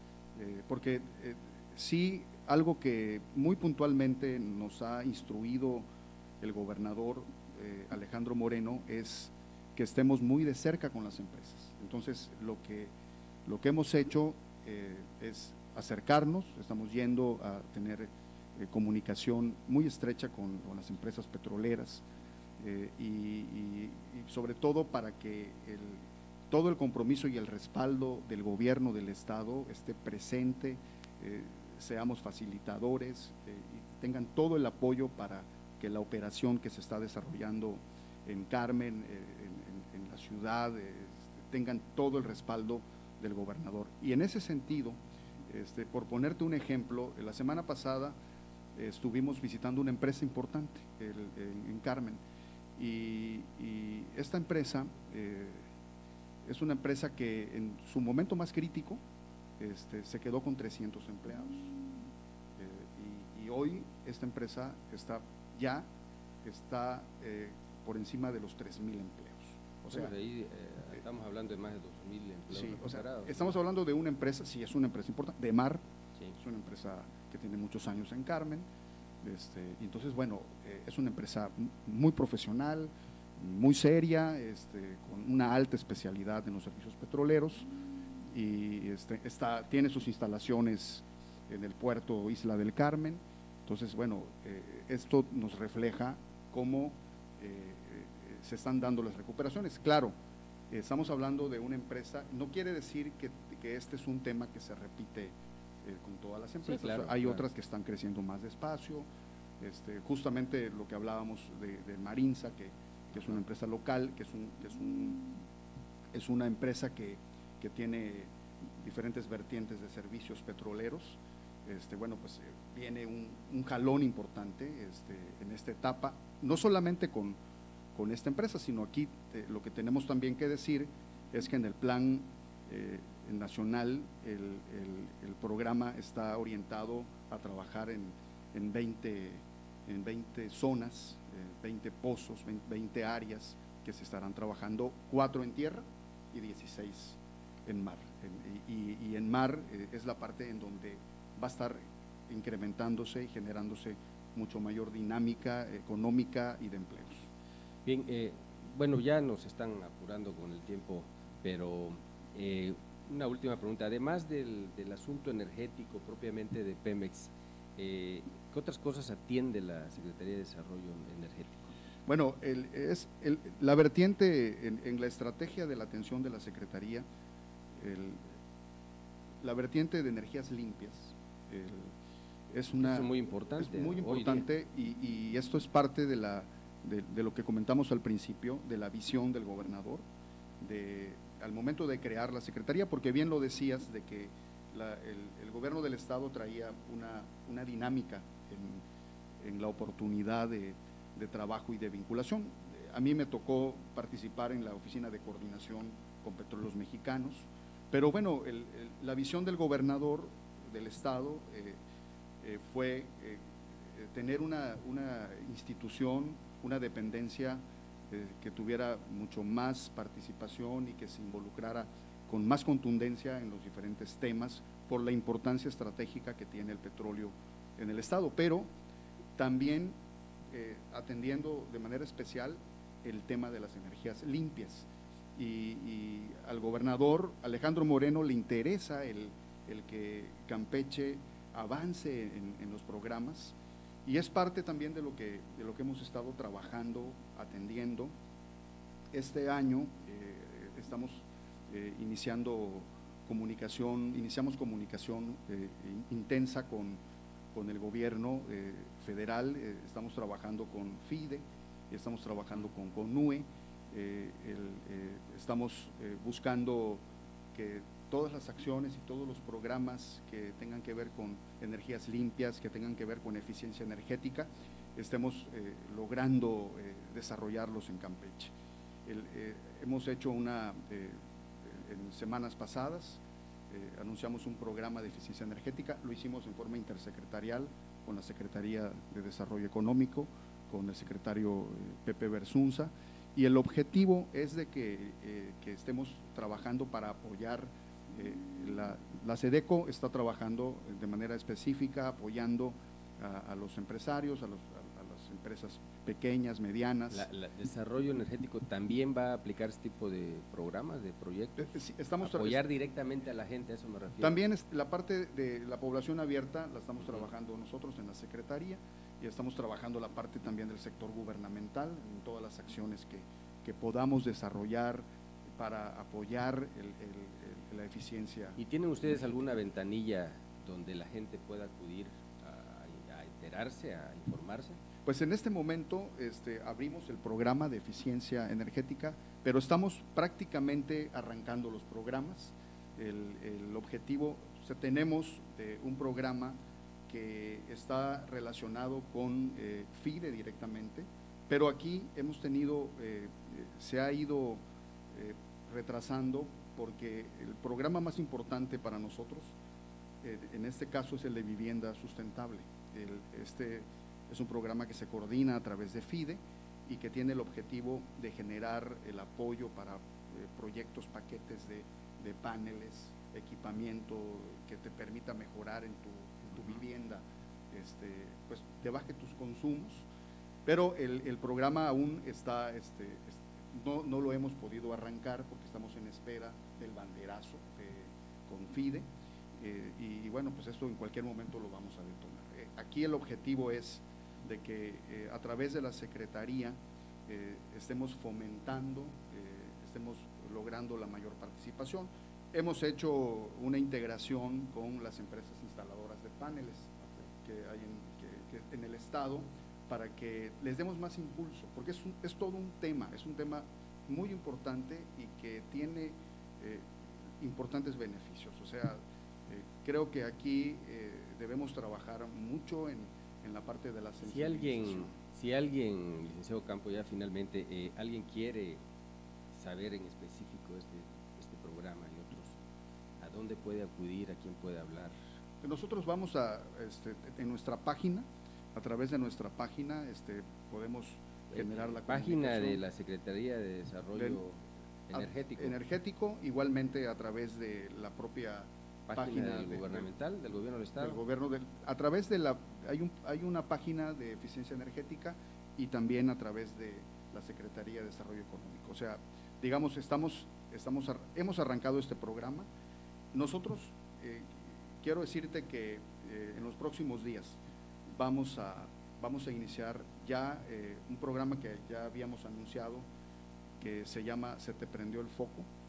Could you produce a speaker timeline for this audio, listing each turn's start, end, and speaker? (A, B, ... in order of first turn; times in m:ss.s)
0:00.3-0:05.8 A
0:06.4-0:12.9 A
0:13.4-0:22.0 A
0:22.6-0:48.2 A
0:48.7-0:52.2 A
0:52.8-0:55.7 A
0:56.4-0:59.0 A
0:59.6-1:01.8 A
1:02.5-1:05.9 A
1:06.4-1:10.1 A
1:09.8-1:13.5 B
1:12.5-1:15.8 A
1:16.4-1:18.7 A
1:19.2-1:27.7 A
1:28.3-1:40.1 A
1:40.7-1:49.1 A
1:46.6-1:47.4 B
1:49.6-1:55.4 A
1:56.1-2:07.4 A
2:07.9-2:37.3 A
2:37.8-2:51.7 B
2:52.1-2:57.0 A
2:57.8-2:58.3 A
2:59.4-3:01.9 A
3:02.5-3:10.0 A
3:02.8-3:04.4 B
3:10.6-3:18.8 A
3:19.4-3:31.8 A
3:32.4-3:48.7 A
3:49.4-3:50.0 A
3:50.5-4:08.1 A
4:09.1-4:17.0 A
4:17.5-4:27.0 A
4:27.5-4:38.5 A
4:39.0-5:07.3 A
5:07.1-5:14.4 B
5:11.6-5:12.6 A
5:14.2-5:28.6 A
5:28.6-5:34.8 B
5:35.0-5:46.6 A
5:47.1-5:59.5 A
6:00.2-6:20.1 A
6:20.6-7:05.2 A
7:04.2-7:08.8 B
7:09.5-7:12.6 B
7:13.2-7:15.1 B
7:15.6-7:22.8 A
7:21.5-7:25.8 B
7:24.1-7:24.4 A
7:25.1-7:30.0 A
7:29.1-7:31.2 B
7:31.0-7:42.6 A
7:43.3-7:47.6 A
7:48.1-7:53.0 A
7:53.8-7:55.7 A